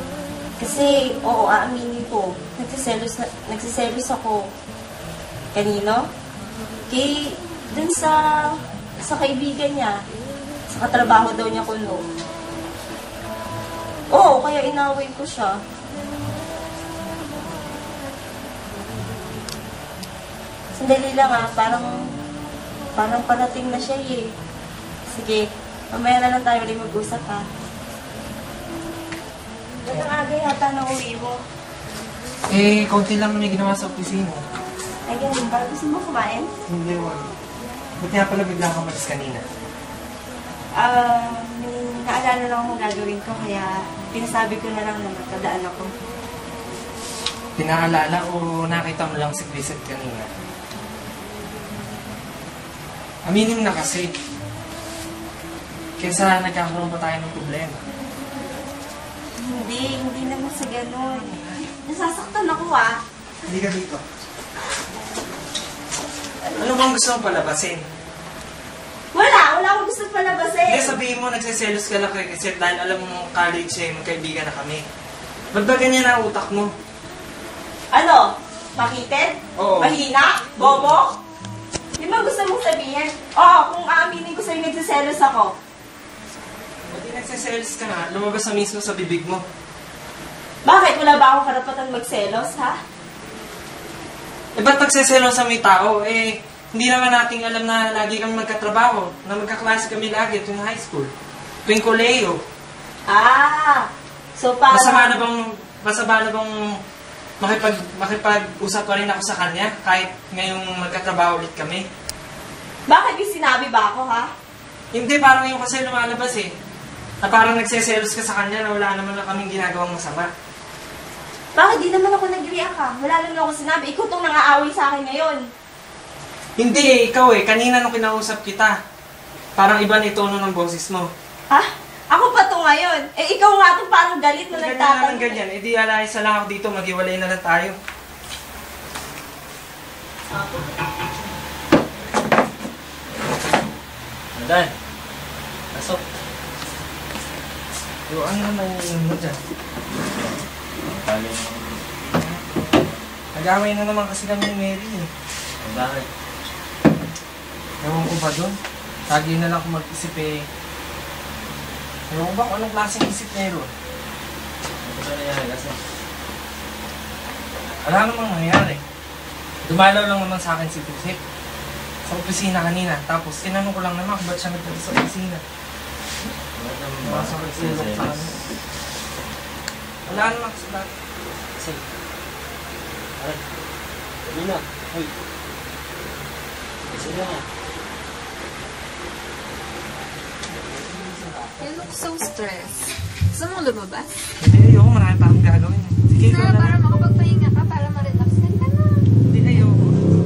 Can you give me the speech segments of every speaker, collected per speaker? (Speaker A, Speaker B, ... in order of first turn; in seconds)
Speaker A: 0.6-4.5, 5.5-6.1, 6.9-10.0, 10.7-12.0, 14.1-15.6, 20.8-22.0, 23.0-24.3, 25.1-27.5, 29.8-31.4, 35.1-36.5, 40.8-45.9, 59.4-63.0, 66.4-66.7, 69.1-71.0, 77.9-81.2, 82.0-85.5, 90.7-92.8, 103.1-105.2, 112.9-114.3, 121.5-125.4, 131.5-135.4, 140.3-140.7
Speaker B: 32.5-34.4, 36.7-37.3, 38.0-39.4, 47.6-50.3, 53.2-54.1, 56.0-57.8, 63.5-64.0, 66.6-67.8, 70.7-74.8, 75.5-76.7, 79.6-80.0, 86.9-89.5, 94.6-101.1, 101.7-102.4, 104.7-106.5, 107.4-111.9, 114.9-116.5, 117.2-120.3, 126.6-128.8, 129.6-131.1, 134.5-137.8, 148.1-149.4, 152.1-152.4, 153.3-155.1, 157.8-158.6, 159.1-160.4, 162.1-163.7, 167.8-168.8, 169.6-171.2, 172.1-175.4, 177.0-178.4, 180.1-180.9, 190.7-191.7, 194.4-196.8, 199.2-200.0
Speaker C: 144.4-144.7, 151.0-151.8, 155.7-156.1, 164.9-165.8, 176.6-178.2, 184.3-185.1, 186.9-187.4
Speaker D: 191.6-194.1, 196.2-199.0